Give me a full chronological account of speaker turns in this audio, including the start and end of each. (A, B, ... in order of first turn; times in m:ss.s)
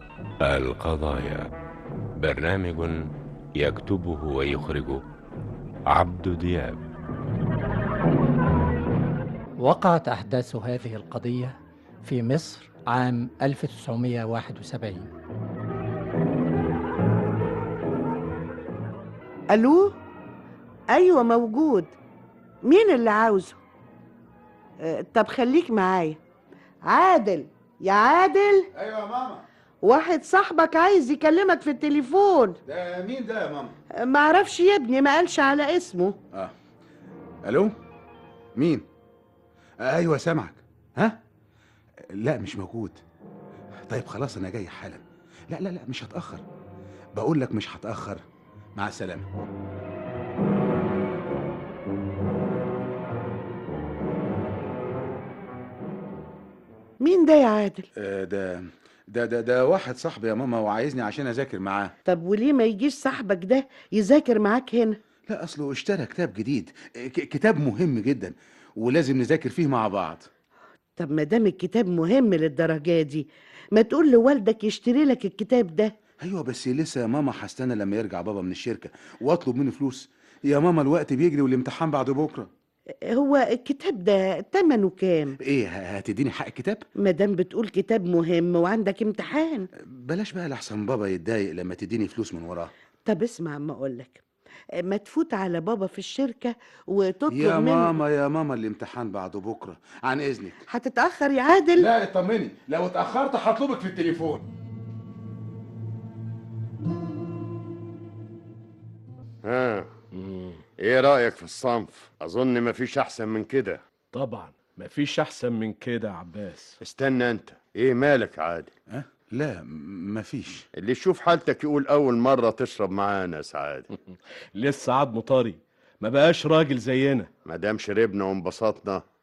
0:00.4-0:01.5 A
0:02.2-0:03.0 A
0:03.6-0:05.0 A
0:05.9-0:06.8 A
0:09.6-0:15.1 B
0:19.5-0:20.0 C
0:20.9-0:22.0 C
0:22.6-0:23.6 C
0:24.8-0:26.2 C
0:26.8-0:28.7 C
0:28.7-0:29.4 D
0:29.8-0:32.6 C
0:32.7-0:33.8 D
0:34.0-0:36.2 C
0:37.4-0:37.8 D
0:38.6-0:38.9 D
0:39.8-0:41.2 D
0:42.1-0:43.0 D
0:43.9-0:46.4 D
0:47.2-0:48.2 D
0:48.8-0:49.3 D
0:57.0-0:57.9 C
0:58.0-1:01.9 D
1:02.1-1:05.0 C
1:05.3-1:10.3 D
1:11.0-1:16.0 C
1:16.2-1:22.5 D
1:23.1-1:25.4 C
1:25.4-1:26.8 D
1:27.0-1:29.7 C
1:29.8-1:32.7 D
1:33.1-1:34.2 C
1:34.8-1:38.0 C
1:37.3-1:40.6 D
1:40.7-1:41.9 C
1:41.8-1:44.5 D
1:49.4-1:49.9 E
1:50.1-1:50.6 F
1:50.8-1:53.8 E
1:54.1-1:56.8 F
1:56.8-1:58.7 E
1:58.9-2:00.7 D
2:00.8-2:03.9 E
2:04.0-2:07.3 F
2:07.4-2:09.0 E